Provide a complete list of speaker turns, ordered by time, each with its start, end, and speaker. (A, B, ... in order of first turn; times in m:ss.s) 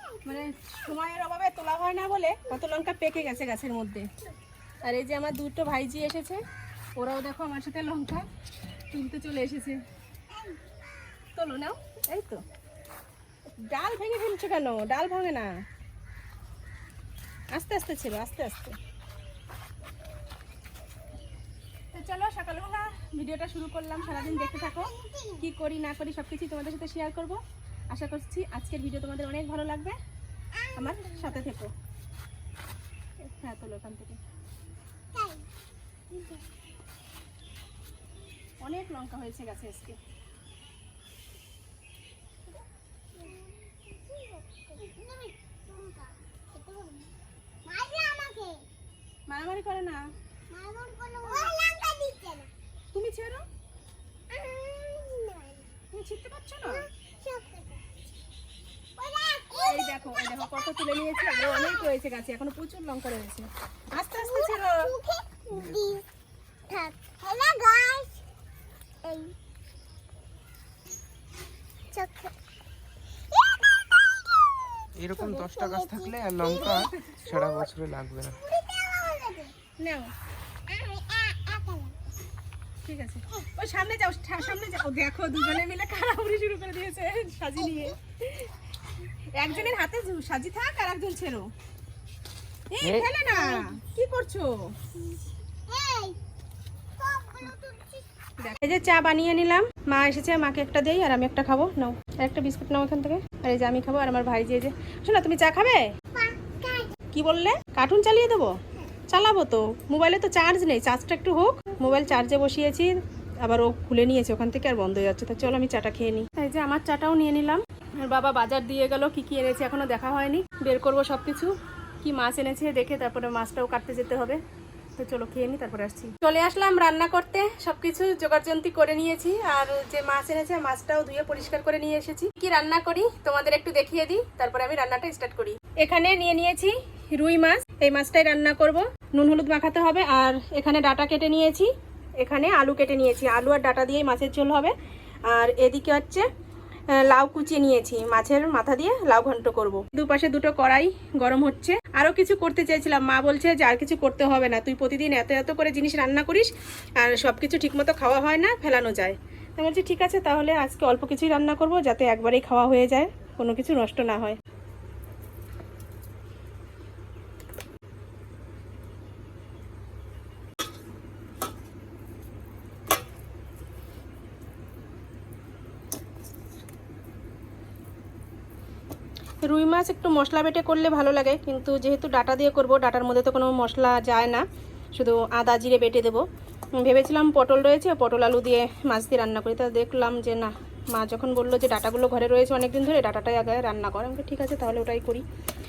0:00.2-0:04.1 A
0:04.8-0:06.4 A
0:07.0-0:08.3 A
0:08.9-0:09.8 A
0:11.3-0:12.4 A
0:13.6-0:15.6 A
0:17.5-0:18.8 A
0:21.9-0:30.0 A
0:24.3-0:25.4 B
0:30.6-0:31.4 B
0:30.7-0:31.7 A
0:33.2-0:34.2 A
0:35.1-0:35.5 B
0:36.1-0:36.5 B
0:38.6-0:40.0 A
0:43.2-0:47.1 B
0:47.6-0:48.6 B
0:49.3-0:50.1 A
0:50.5-0:52.5 B
0:52.9-0:53.4 A
0:54.3-0:55.7 B
0:55.9-0:56.9 A
0:56.7-0:57.9 B
0:59.0-1:01.8 B
0:59.6-1:05.0 A
1:04.2-1:06.0 B
1:05.5-1:05.8 C
1:06.7-1:08.2 B
1:09.0-1:09.4 B
1:11.9-1:12.3 B
1:13.3-1:17.6 B
1:15.0-1:18.4 C
1:16.6-1:17.1 A
1:18.3-1:19.5 B
1:19.8-1:20.1 A
1:20.7-1:22.0 B
1:22.8-1:31.5 A
1:32.7-1:34.8 A
1:32.8-1:33.1 C
1:35.1-1:36.2 B
1:37.0-1:38.3 B
1:38.4-1:45.9 A
1:46.1-1:47.0 B
1:47.1-2:04.4 A
2:05.0-2:24.7 A
2:25.2-2:26.3 A
2:26.9-2:44.4 A
2:59.4-3:04.4 A
3:04.9-3:15.2 A